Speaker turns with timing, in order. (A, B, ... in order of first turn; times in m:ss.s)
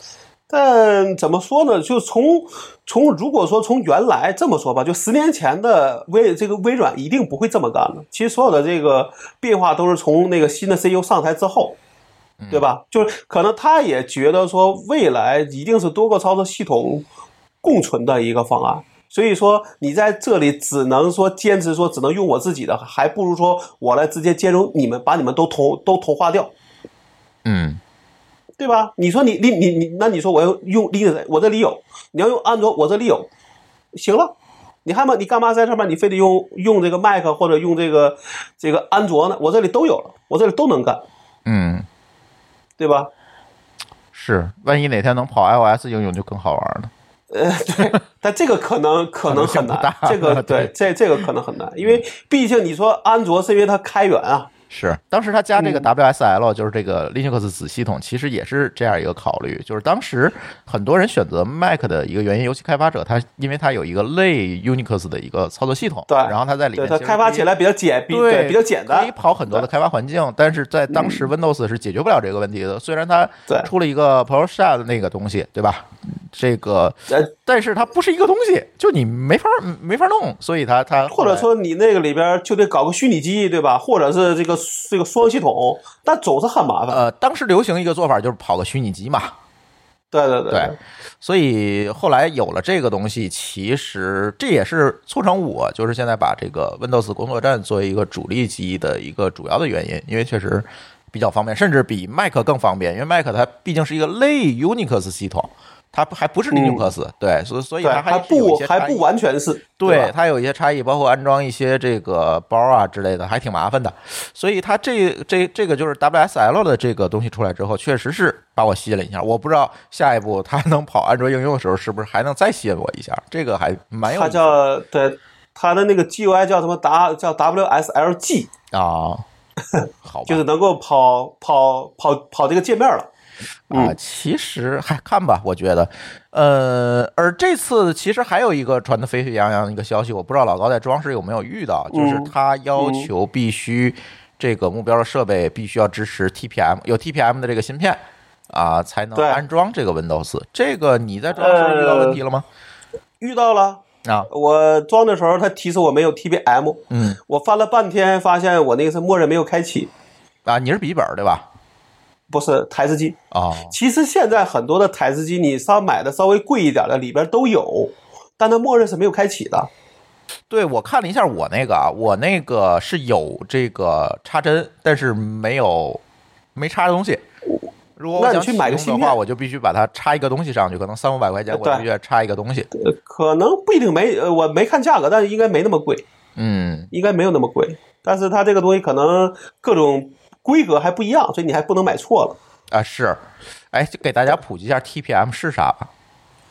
0:00.5-0:11.8 A
0:12.5-0:17.0 A
0:17.6-0:26.5 A
0:27.4-0:27.8 B
0:28.6-0:33.3 A
0:33.9-0:34.3 A
0:34.8-0:41.0 A
0:41.4-0:41.8 B
0:42.8-0:43.1 A
0:44.1-0:46.9 B
0:47.3-0:54.5 A
0:49.3-0:50.7 B
0:54.7-1:07.5 B
0:55.6-0:55.9 A
1:06.1-1:09.6 A
1:08.1-1:21.5 B
1:10.9-1:11.3 A
1:21.1-1:27.0 A
1:26.9-1:29.3 B
1:30.1-1:30.8 A
1:30.5-1:49.0 B
1:46.5-1:46.9 A
1:47.8-1:50.1 A
1:49.8-2:04.5 B
2:04.0-2:08.5 A
2:08.7-2:09.2 B
2:09.8-2:13.1 A
2:10.0-2:10.4 B
2:13.7-2:14.0 A
2:13.7-2:32.4 B
2:21.9-2:23.1 A
2:29.2-2:29.4 A
2:31.3-2:32.2 A
2:33.2-2:39.9 A
2:36.9-2:37.2 B
2:40.4-2:41.4 B
2:42.3-2:43.2 A
2:43.3-2:43.7 B
2:43.7-2:49.7 A
2:50.5-2:56.0 B
2:56.5-2:57.2 B
2:58.0-3:02.7 B
2:58.2-2:59.2 A
3:01.5-3:01.8 A
3:02.7-3:06.0 A
3:06.4-3:06.9 B
3:06.9-3:12.4 A
3:12.7-3:15.9 B